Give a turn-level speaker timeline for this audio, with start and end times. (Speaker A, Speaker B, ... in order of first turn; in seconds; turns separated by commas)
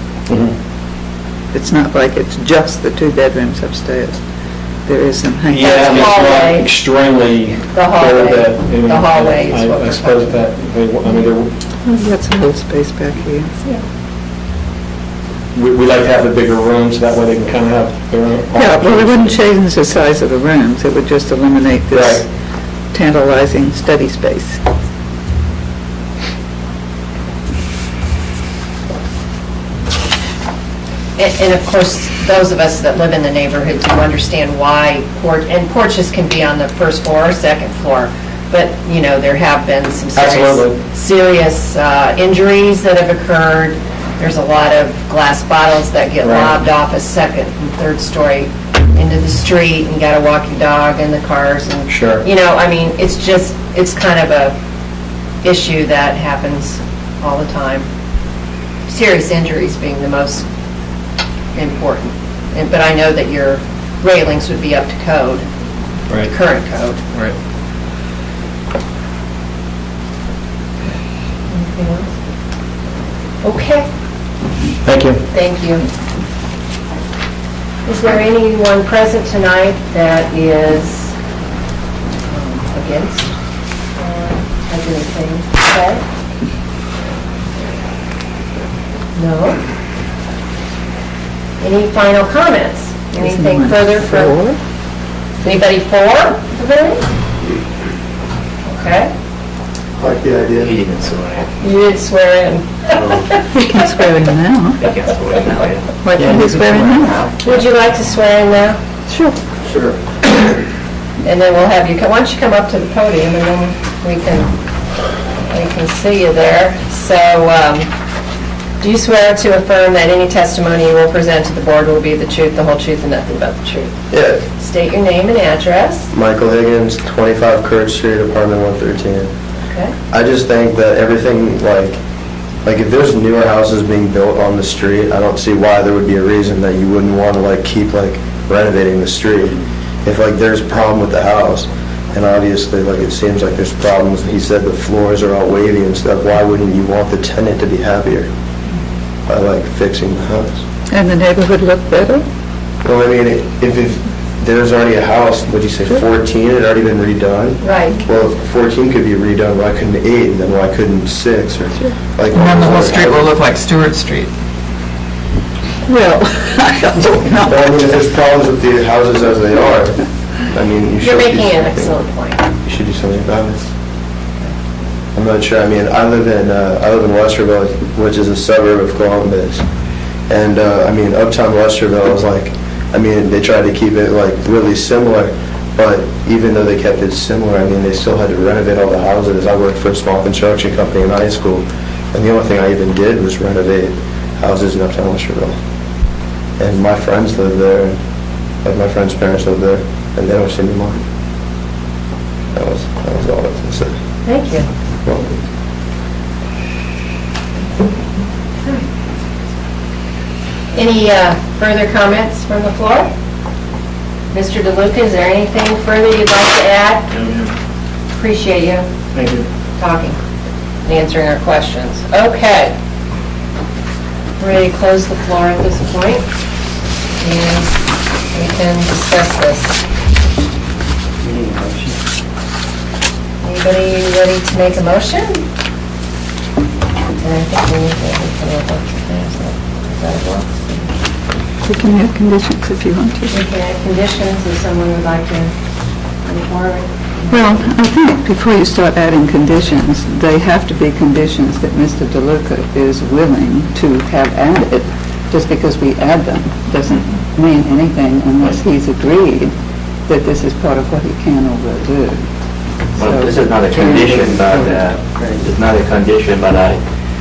Speaker A: 0.3-0.5, Speaker B: 1.5-4.2, Speaker B: 4.8-6.0, Speaker A: 5.5-11.5, Speaker C: 5.6-6.7, Speaker D: 6.0-6.5, Speaker C: 7.7-10.4, Speaker B: 11.8-13.5, Speaker A: 15.5-19.4, Speaker B: 18.6-22.3, Speaker A: 21.9-22.2, Speaker B: 22.9-24.6, Speaker C: 31.2-54.5, Speaker A: 40.2-40.7, Speaker A: 46.2-46.5, Speaker A: 51.9-52.2, Speaker C: 55.4-57.9, Speaker C: 58.9-60.5, Speaker C: 61.5-65.4, Speaker C: 66.3-67.0, Speaker C: 71.5-72.1, Speaker C: 73.4-73.8, Speaker A: 74.8-75.2, Speaker C: 75.3-75.9, Speaker C: 77.8-81.1, Speaker C: 82.3-83.3, Speaker C: 84.0-86.0, Speaker C: 89.1-89.6, Speaker C: 91.6-94.3, Speaker B: 93.1-94.6, Speaker C: 95.4-97.0, Speaker C: 98.6-99.1, Speaker E: 100.0-100.7, Speaker F: 100.5-101.5, Speaker C: 101.6-103.4, Speaker B: 103.5-104.8, Speaker F: 104.8-106.0, Speaker B: 106.0-107.3, Speaker D: 106.2-107.1, Speaker C: 107.4-108.8, Speaker E: 109.7-110.0, Speaker C: 111.2-114.5, Speaker C: 115.4-117.9, Speaker C: 118.8-123.9, Speaker E: 124.1-124.4, Speaker C: 124.5-126.1, Speaker E: 126.1-129.3, Speaker C: 129.7-129.9, Speaker E: 130.1-132.0, Speaker E: 132.6-148.3, Speaker E: 149.3-150.6, Speaker B: 150.9-152.2, Speaker E: 152.8-163.3, Speaker C: 157.6-158.0, Speaker D: 162.3-164.3, Speaker B: 165.8-167.6, Speaker E: 167.4-171.9, Speaker C: 171.0-172.4, Speaker E: 172.6-173.7, Speaker E: 175.1-179.7, Speaker E: 180.3-195.6, Speaker E: 196.6-198.0, Speaker E: 198.6-201.0, Speaker E: 202.5-203.9, Speaker C: 204.2-204.7, Speaker E: 205.0-205.3, Speaker C: 208.6-208.9, Speaker C: 210.7-213.1, Speaker C: 214.3-217.1, Speaker A: 217.1-217.5, Speaker C: 218.1-218.9, Speaker A: 219.1-219.5, Speaker C: 219.8-220.2, Speaker C: 220.8-222.7, Speaker C: 224.4-226.2, Speaker C: 227.2-229.8, Speaker C: 233.4-235.4, Speaker C: 237.2-240.9, Speaker B: 241.6-243.4, Speaker C: 243.3-245.5, Speaker C: 246.2-247.5, Speaker B: 247.3-259.5, Speaker B: 260.1-262.2, Speaker B: 263.0-264.6, Speaker F: 263.0-266.8